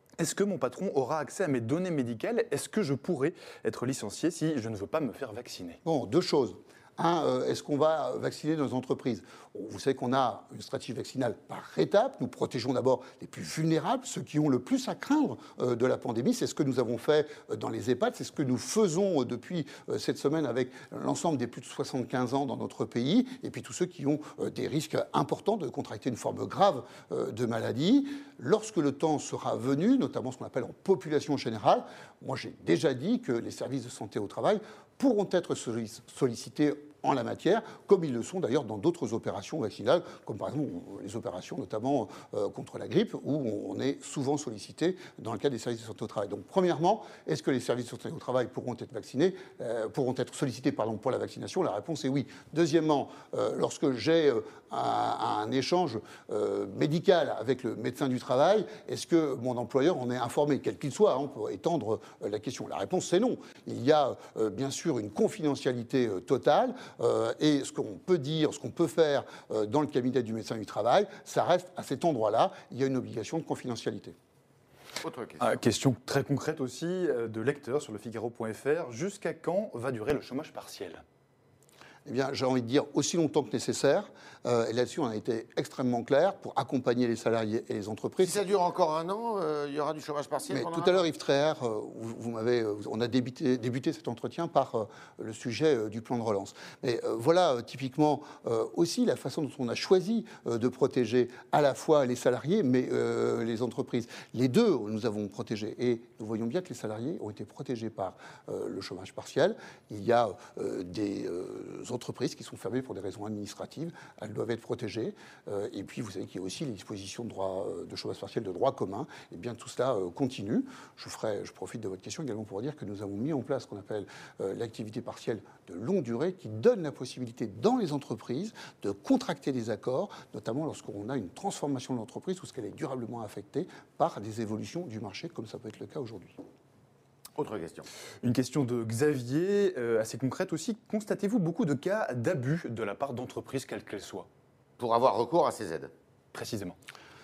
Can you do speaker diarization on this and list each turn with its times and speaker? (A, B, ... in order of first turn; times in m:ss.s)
0:00.2-0:05.8 A
0:05.8-1:14.2 B
1:15.0-1:15.5 C
1:15.4-1:21.0 A
1:22.1-1:28.5 B
1:28.2-1:31.1 C
1:30.5-2:16.4 B
2:17.4-2:17.9 C
2:18.2-2:24.3 A
2:24.8-2:25.9 C
2:26.3-2:26.8 A